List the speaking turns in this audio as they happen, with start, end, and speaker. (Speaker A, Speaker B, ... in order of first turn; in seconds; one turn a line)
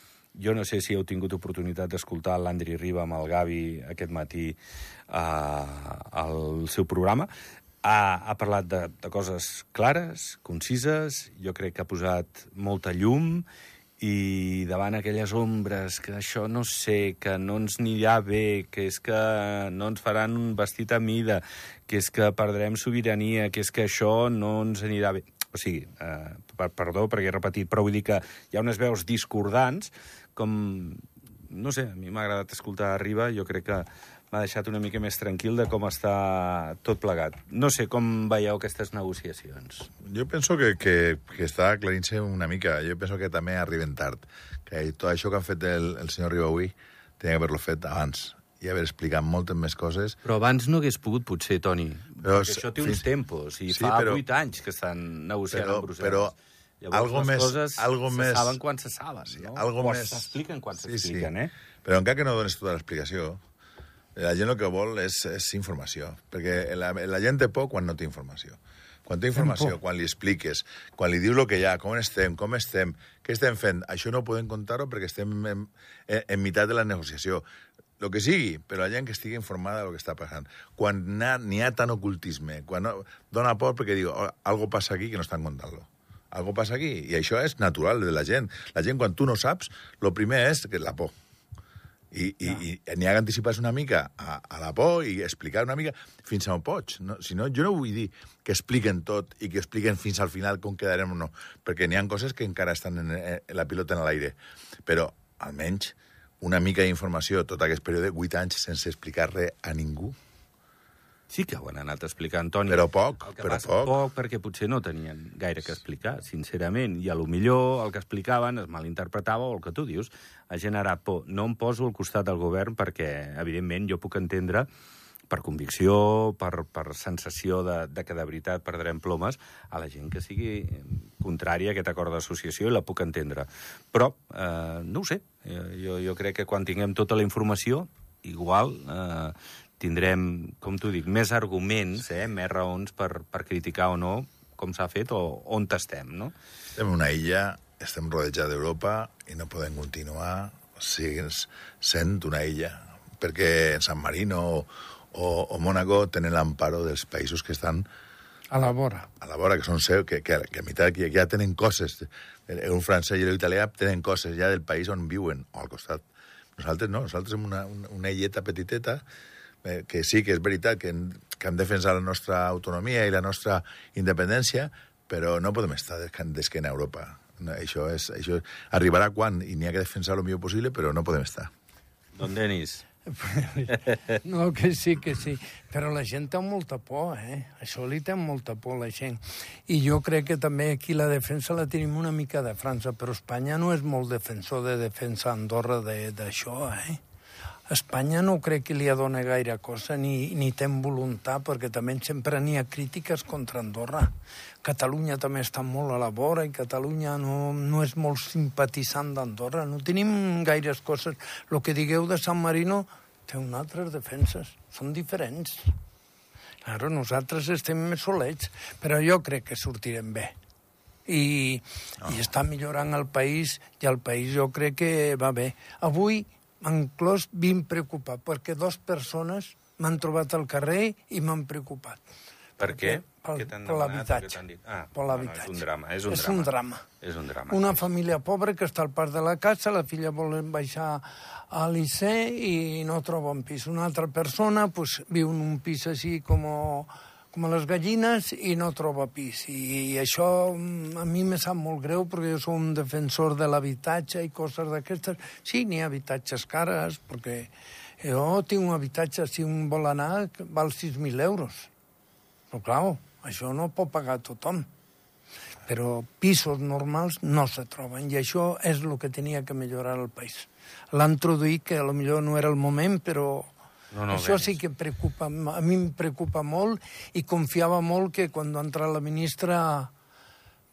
Speaker A: 0.3-4.6
Speaker A: 5.1-7.3
Speaker A: 7.8-13.5
Speaker A: 14.0-39.9
Speaker B: 40.0-50.2
Speaker A: 50.2-61.5
Speaker B: 52.2-53.0
Speaker B: 53.7-54.2
Speaker B: 55.5-56.3
Speaker B: 56.9-58.6
Speaker B: 59.3-60.3
Speaker B: 60.8-61.3
Speaker B: 61.8-63.4
Speaker B: 64.2-77.5
Speaker C: 69.4-69.7
Speaker B: 78.0-91.1
Speaker B: 92.1-110.2
Speaker A: 111.3-124.7
Speaker B: 112.7-114.0
Speaker A: 125.3-146.3
Speaker B: 146.8-157.9
Speaker C: 158.5-159.1
Speaker B: 159.1-166.1
Speaker B: 166.6-169.0
Speaker B: 169.6-181.5
Speaker A: 182.2-182.8
Speaker C: 183.1-197.0
Speaker C: 197.7-204.1
Speaker C: 204.6-215.7
Speaker C: 216.7-220.3
Speaker C: 221.1-232.0
Speaker A: 232.6-237.9
Speaker C: 232.6-234.4
Speaker C: 234.9-236.9
Speaker C: 237.5-261.7
Speaker C: 262.5-264.7
Speaker C: 265.7-273.5
Speaker A: 273.9-274.6
Speaker C: 274.1-279.9